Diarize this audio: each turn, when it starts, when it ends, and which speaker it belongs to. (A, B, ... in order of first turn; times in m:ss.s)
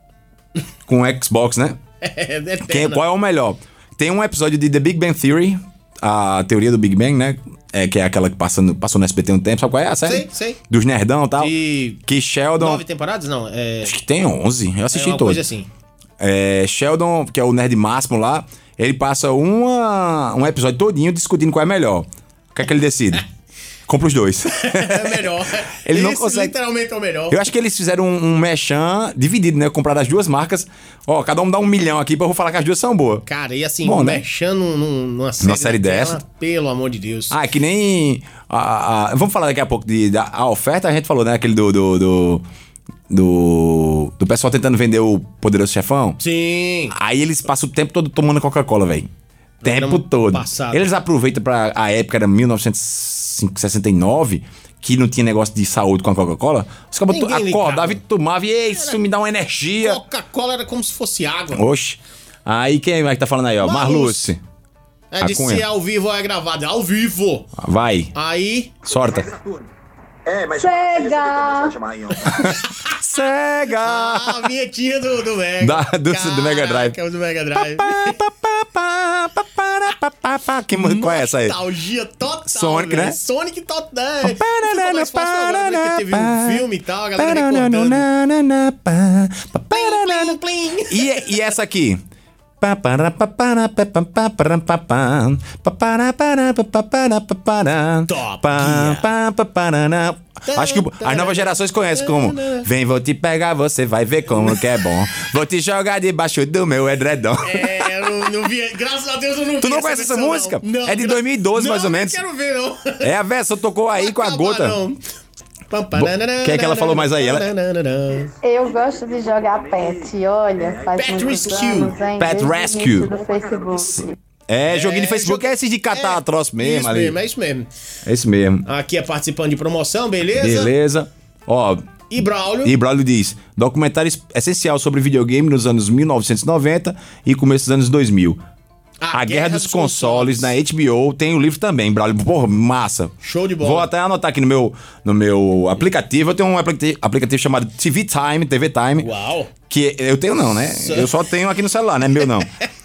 0:00.9-0:01.8 A
0:02.0-0:03.0 B
0:02.6-0:11.5 A
0:10.0-0:10.6 B
0:11.4-0:12.0 B
0:12.0-0:12.8 A
0:12.6-0:13.9 B
0:13.8-0:15.4 A
0:14.9-0:15.7 B
0:16.2-0:23.2 A
0:23.9-0:26.5 A
0:24.6-0:27.4 B
0:27.3-0:33.2 A
0:33.2-0:37.4 B
0:33.8-0:34.2 A
0:35.4-0:36.2 A
0:37.3-0:42.4 A
0:43.1-0:46.2 A
0:46.2-0:47.0 B
0:46.9-0:49.1 A
0:49.6-0:50.9 B
0:49.6-1:00.0 A
0:57.1-0:58.0 B
0:59.8-1:01.6 B
1:01.5-1:04.4 A
1:03.6-1:04.3 B
1:05.1-1:07.5 B
1:05.2-1:05.6 A
1:07.6-1:08.1 A
1:08.1-1:08.8 B
1:08.8-1:09.6 A
1:10.2-1:14.5 A
1:10.4-1:11.8 C
1:12.2-1:13.0 B
1:13.8-1:18.2 B
1:15.6-1:17.0 A
1:17.5-1:21.6 A
1:20.7-1:28.0 B
1:22.4-1:23.2 A
1:24.2-1:26.6 A
1:27.2-1:32.0 A
1:29.7-1:31.4 B
1:32.6-1:48.2 A
1:38.1-1:39.0 B
1:40.5-1:42.7 B
1:44.4-1:44.8 B
1:47.4-1:53.1 B
1:49.6-1:52.2 A
1:53.0-1:54.8 A
1:53.9-1:55.0 B
1:55.7-1:58.3 B
1:55.9-1:57.5 A
1:58.4-2:04.1 C
2:00.9-2:01.9 B
2:02.2-2:03.1 A
2:04.5-2:07.2 A
2:04.7-2:07.7 B
2:08.0-2:08.7 A
2:08.6-2:10.7 B
2:10.4-2:11.9 A
2:12.1-2:12.7 B
2:12.6-2:18.4 A
2:19.0-2:20.5 B
2:19.1-2:29.1 A
2:23.2-2:23.9 B
2:29.0-2:29.5 B
2:29.7-2:32.5 A
2:30.7-2:31.1 B